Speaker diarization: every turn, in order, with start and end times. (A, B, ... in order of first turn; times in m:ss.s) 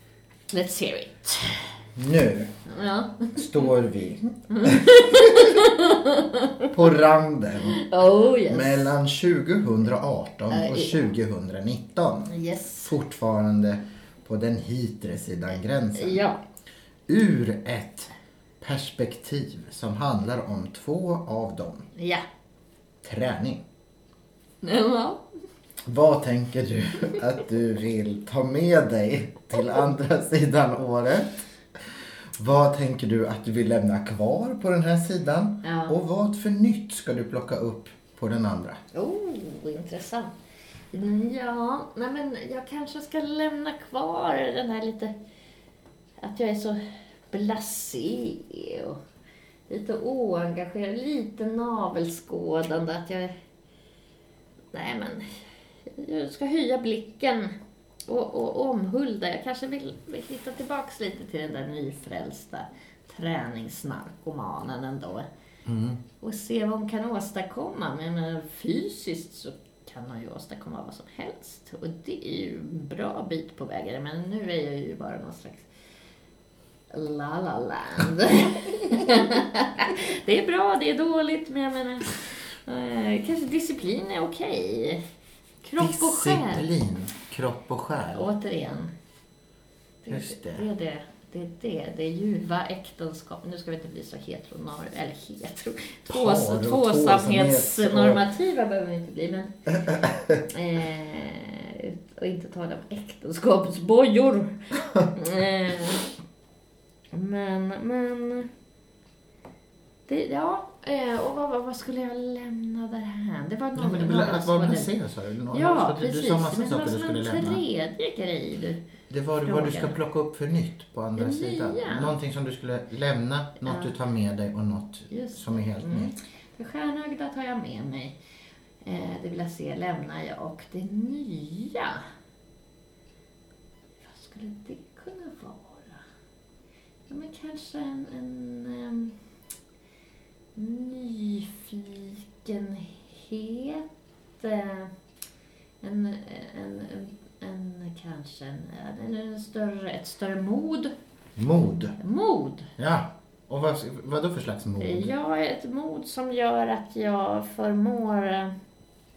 0:00.5-0:01.7 A
0:02.0-0:02.5 B
0:02.7-0:03.5 A
0:03.3-0:05.7 B
0:04.5-0:06.7 A
0:06.7-0:07.8 B
0:07.7-0:08.9 A
0:08.5-0:12.3 B
0:10.5-0:11.1 A
0:12.3-0:12.9 A
0:12.8-0:16.2 B
0:16.0-0:16.4 A
0:17.1-0:21.9 B
0:22.0-0:22.2 A
0:23.0-0:23.6 B
0:24.6-0:25.2 A
0:25.8-0:31.4 B
0:32.4-0:38.8 B
0:35.6-0:36.0 A
0:38.9-0:40.3 A
0:40.9-0:45.1 A
0:46.2-0:49.0 A
0:49.7-0:53.3 A
0:54.7-0:57.6 A
0:58.1-1:05.3 A
1:05.7-1:06.0 B
1:06.2-1:15.7 A
1:16.9-1:25.0 A
1:25.6-1:26.7 A
1:25.8-1:28.3 B
1:28.1-1:28.9 A
1:30.0-1:39.6 A
1:30.1-1:30.7 B
1:36.1-1:38.2 B
1:39.7-1:40.5 B
1:40.5-1:46.1 A
1:47.1-1:48.5 A
1:50.1-1:54.9 A
1:53.8-1:57.6 B
1:55.5-1:58.8 A
1:59.1-2:06.2 B
1:59.4-2:00.0 A
2:01.2-2:02.1 A
2:03.6-2:03.9 A
2:05.1-2:08.2 A
2:08.8-2:12.0 A
2:14.0-2:16.0 A
2:17.1-2:19.2 A
2:20.6-2:23.9 A
2:24.4-2:24.9 A
2:25.8-2:30.9 A
2:31.4-2:32.0 B
2:32.0-2:32.7 A
2:32.8-2:35.1 B
2:34.8-2:38.6 A